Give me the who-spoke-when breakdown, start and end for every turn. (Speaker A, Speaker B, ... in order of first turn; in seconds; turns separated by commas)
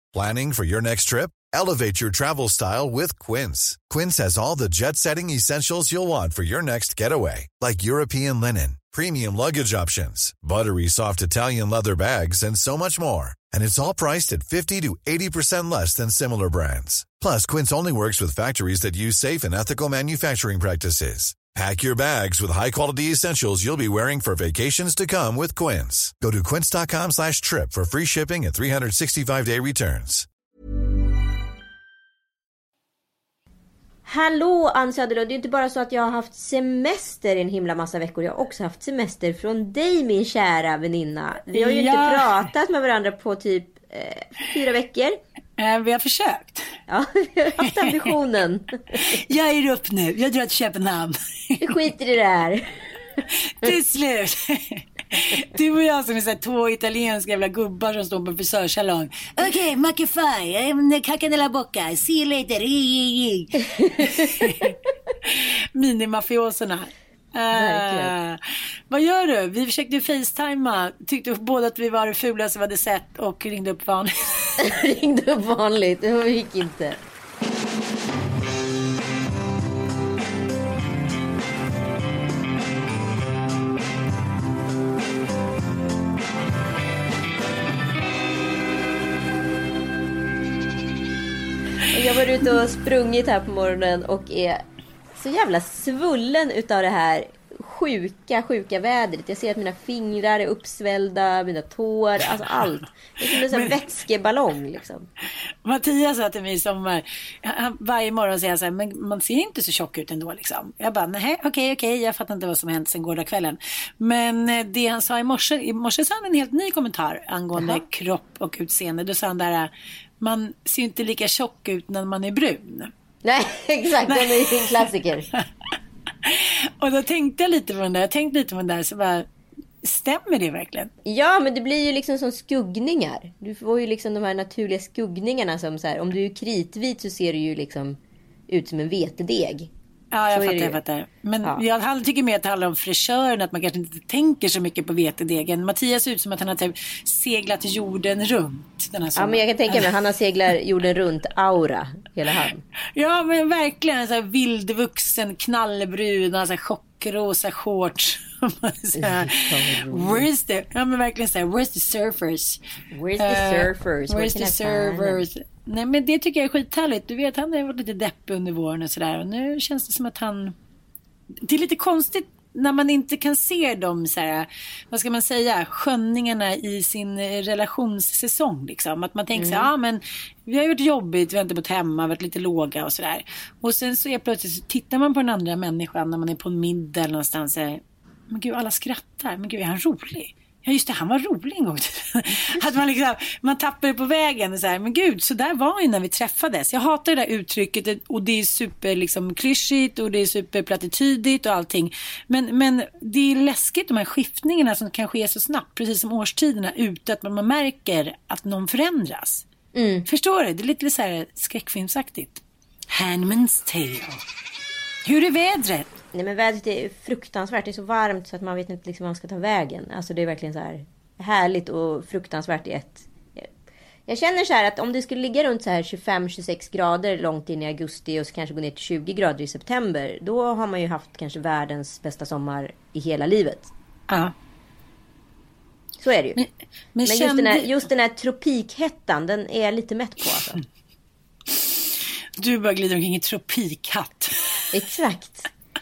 Speaker A: 0.1-30.3, Speaker B: 34.0-45.2, Speaker C: 41.5-42.4, Speaker C: 45.6-46.6, Speaker B: 46.9-49.2, Speaker C: 48.9-51.6, Speaker B: 51.6-52.8, Speaker C: 53.3-74.6, Speaker B: 63.8-64.3, Speaker B: 67.5-68.1, Speaker B: 74.6-77.0, Speaker B: 91.8-94.6, Speaker B: 95.2-105.1, Speaker C: 105.6-122.9, Speaker B: 117.6-117.8, Speaker B: 123.2-125.3, Speaker C: 124.0-124.5, Speaker C: 126.2-129.2, Speaker C: 129.8-130.9, Speaker B: 131.0-139.7, Speaker C: 140.1-149.9, Speaker B: 140.3-140.8, Speaker B: 149.2-152.6, Speaker C: 152.9-162.6, Speaker B: 158.9-160.3, Speaker B: 162.9-165.2, Speaker C: 163.2-170.5, Speaker C: 171.4-209.4, Speaker B: 179.3-179.7, Speaker B: 209.7-210.1, Speaker C: 210.1-214.2, Speaker C: 215.0-215.9, Speaker B: 216.1-223.5, Speaker B: 224.1-233.7, Speaker C: 234.1-234.3, Speaker B: 236.0-236.4, Speaker C: 236.3-237.7, Speaker B: 237.0-240.6, Speaker C: 242.4-244.6, Speaker B: 244.7-245.5